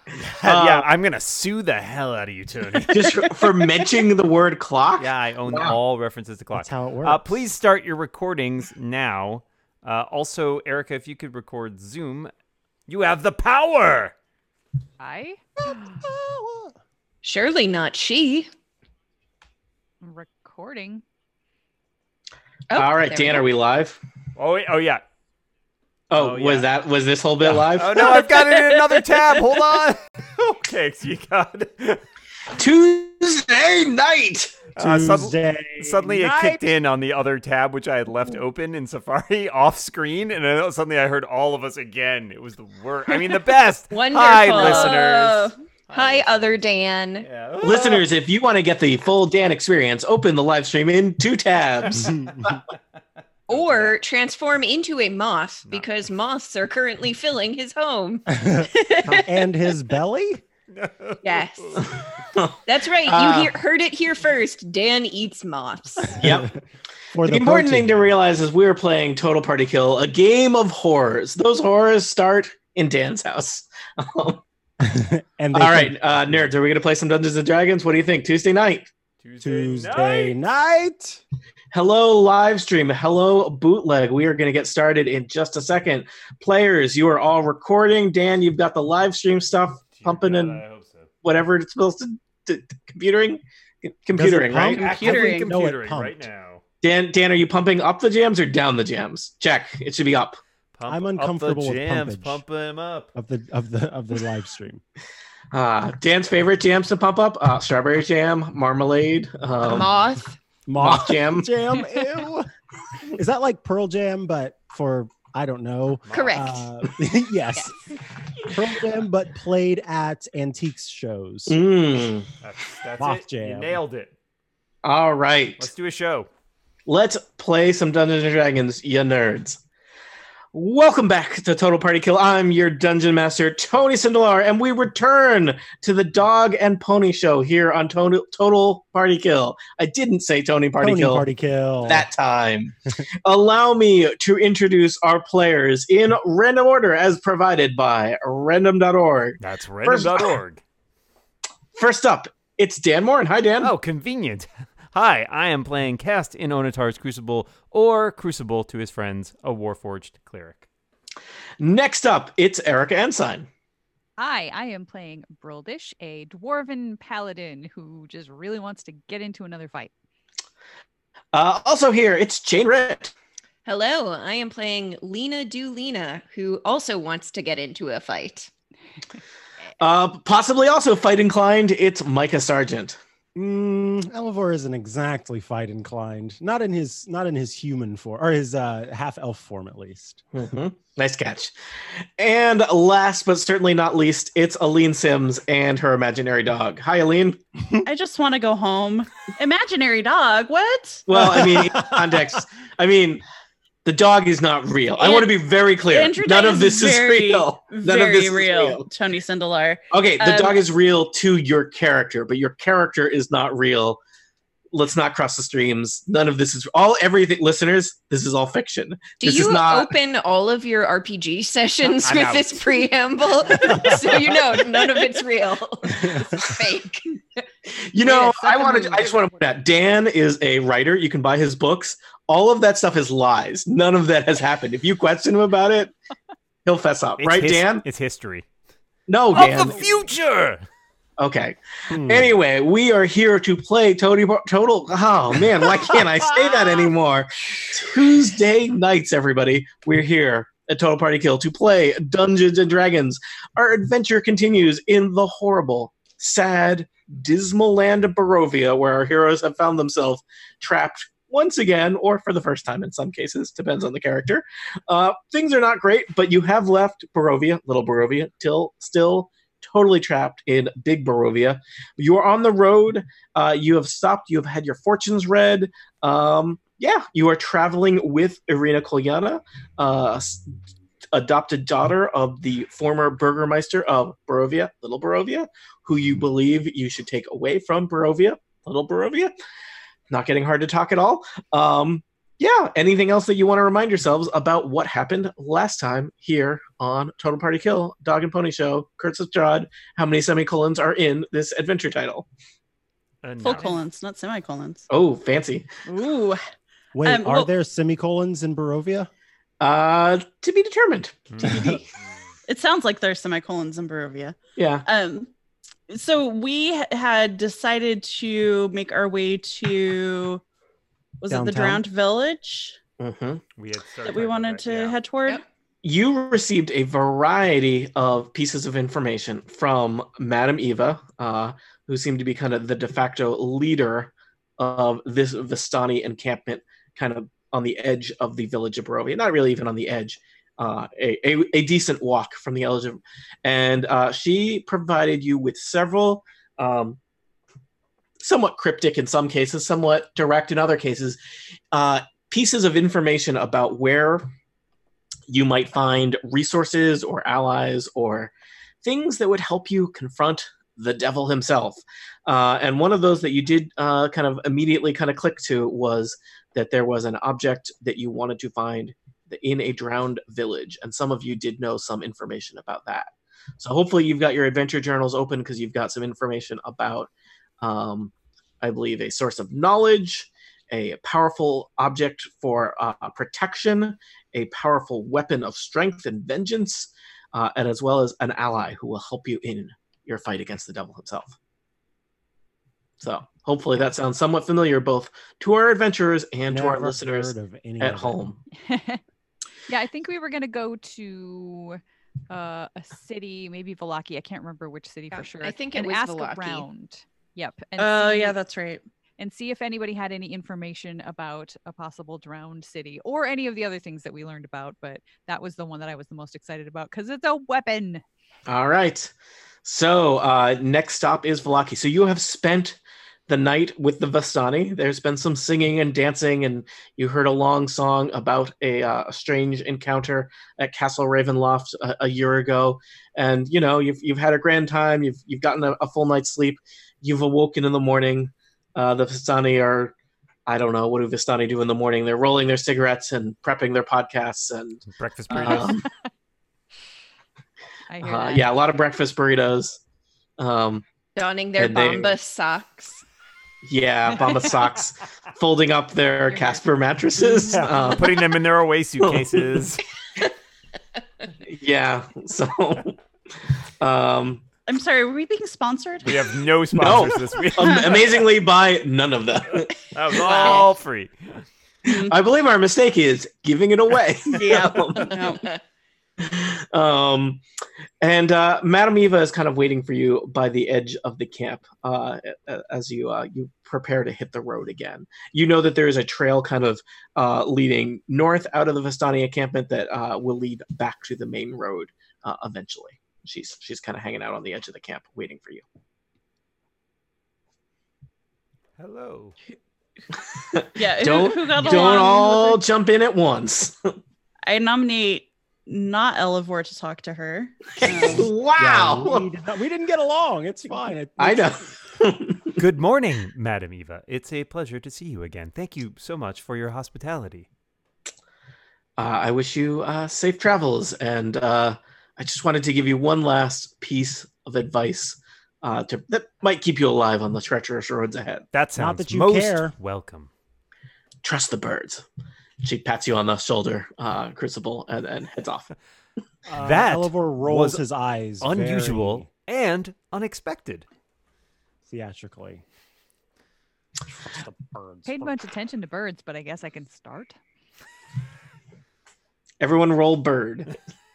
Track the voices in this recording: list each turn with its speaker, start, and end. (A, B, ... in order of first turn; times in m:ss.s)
0:00.3-0:03.2 A
0:00.4-0:00.9 B
0:02.9-0:05.8 B
0:05.0-0:12.3 A
0:06.5-0:07.4 C
0:12.9-0:14.1 A
0:15.0-0:16.0 D
0:16.0-0:16.7 C
0:17.2-0:18.5 E
0:20.0-0:21.0 D
0:22.7-0:23.5 E
0:22.8-0:24.0 B
0:24.4-0:25.0 A
0:26.1-0:28.2 B
0:26.1-0:26.7 A
0:27.4-0:32.0 A
0:32.5-0:34.6 B
0:34.8-0:46.6 A
0:34.8-0:36.7 C
0:43.9-0:47.3 E
0:44.6-0:45.0 F
0:47.2-0:48.0 A
0:47.6-0:52.2 B
0:52.0-0:52.5 C
0:53.5-0:58.4 E
0:53.5-0:54.0 A
0:55.7-0:55.9 A
0:58.4-1:00.4 C
1:00.7-1:01.8 A
1:01.2-1:01.8 E
1:01.8-1:03.5 B
1:02.6-1:06.2 E
1:06.1-1:06.5 C
1:06.2-1:06.5 B
1:07.1-1:08.1 C
1:07.2-1:14.4 B
1:14.8-1:16.4 C
1:15.5-1:18.9 B
1:19.2-1:20.4 A
1:19.4-1:21.2 C
1:21.7-1:30.6 B
1:29.9-1:31.1 A
1:31.2-1:34.9 B
1:34.1-1:36.3 C
1:34.7-1:35.5 F
1:34.7-1:36.6 A
1:36.8-1:40.4 B
1:40.7-1:43.1 A
1:40.9-1:42.4 C
1:43.1-1:44.8 C
1:45.5-1:49.9 B
1:49.6-1:50.4 E
1:50.7-1:52.5 C
1:50.8-1:51.5 B
1:53.1-1:57.7 C
1:56.0-1:56.6 A
1:56.1-1:56.6 E
1:58.4-2:01.6 C
2:01.5-2:02.3 B
2:02.4-2:04.1 A
2:03.0-2:03.8 C
2:04.8-2:05.7 B
2:05.6-2:06.3 A
2:06.9-2:09.6 B
2:10.5-2:21.2 B
2:20.8-2:22.1 C
2:21.8-2:30.3 B
2:29.4-2:30.6 A
2:31.8-2:33.7 B
2:33.6-2:40.6 A
2:41.6-2:43.5 B
2:44.2-2:49.9 D
2:51.3-2:53.1 B
2:53.6-2:58.5 E
2:59.8-3:03.0 B
3:03.3-3:10.2 C
3:10.3-3:11.5 B
3:12.2-3:17.4 B
3:17.8-3:21.1 F
3:21.1-3:23.2 B
3:21.1-3:22.2 C
3:23.8-3:28.9 B
3:25.0-3:25.3 F
3:25.9-3:30.6 F
3:29.9-3:34.0 B
3:34.7-3:40.0 B
3:39.2-3:47.1 E
3:42.0-3:42.8 A
3:45.9-3:46.4 C
3:47.7-3:55.9 B
3:48.0-3:49.0 D
3:56.6-3:57.8 B
3:57.2-3:58.5 A
3:59.1-3:59.8 B
3:59.3-4:00.6 A
4:01.2-4:40.5 B
4:01.9-4:02.3 C
4:41.1-4:49.3 B
4:50.1-5:02.3 B
5:03.2-5:03.7 A
5:03.4-5:04.9 F
5:03.4-5:03.8 D
5:04.9-5:05.7 B
5:05.8-5:06.4 F
5:06.9-5:09.1 C
5:07.0-5:07.5 F
5:09.6-5:11.8 B
5:11.3-5:11.8 A
5:11.4-5:11.8 C
5:12.5-5:15.3 F
5:14.6-5:14.8 B
5:15.9-5:20.4 F
5:21.2-5:22.8 F
5:21.3-5:21.8 C
5:23.0-5:23.4 B
5:23.6-5:25.0 A
5:24.0-5:25.4 F
5:25.8-5:47.0 B
5:48.2-5:51.2 B
5:51.7-5:54.3 B
5:55.3-5:58.3 B
5:58.8-6:17.1 B
6:17.6-6:31.3 B
6:33.0-6:38.4 B
6:36.4-6:38.2 C
6:38.5-6:39.0 D
6:39.7-6:48.4 D
6:45.1-6:46.7 E
6:47.8-6:48.8 F
6:49.2-6:58.0 D
6:58.5-6:59.1 B
6:59.6-7:19.9 B
7:20.5-7:25.8 B
7:24.8-7:25.8 A
7:25.4-7:25.8 D
7:27.9-7:28.5 D
7:28.0-7:29.8 B
7:30.4-7:30.8 B
7:31.2-7:33.0 E
7:31.6-7:32.2 B
7:33.6-7:38.2 B
7:34.1-7:34.6 D
7:37.5-7:39.8 A
7:39.0-7:39.6 B
7:41.4-7:43.0 B
7:43.8-7:44.4 B
7:44.7-7:46.2 F
7:46.0-7:48.2 A
7:46.7-7:49.7 B
7:47.6-7:48.0 F
7:49.9-7:51.4 A
7:50.2-7:50.6 E
7:50.3-7:50.6 F
7:51.8-7:52.1 F
7:51.8-7:55.2 B
7:54.3-7:55.5 F
7:56.2-7:57.4 B
7:58.0-8:15.6 B
8:18.8-8:19.4 A
8:20.4-8:23.9 B
8:20.8-8:22.6 F
8:24.4-8:28.3 F
8:27.8-8:29.3 B
8:28.0-8:31.7 C
8:31.2-8:32.6 B
8:32.6-8:37.5 A
8:39.0-8:48.4 B
8:48.5-8:50.3 A
8:48.8-8:49.7 C
8:51.2-8:52.0 B
8:52.6-8:55.7 B
8:56.4-8:59.2 C
8:56.6-8:57.8 A
8:58.4-9:00.8 A
9:01.9-9:02.6 C
9:04.0-9:05.4 C
9:05.0-9:07.4 D
9:09.6-9:10.7 B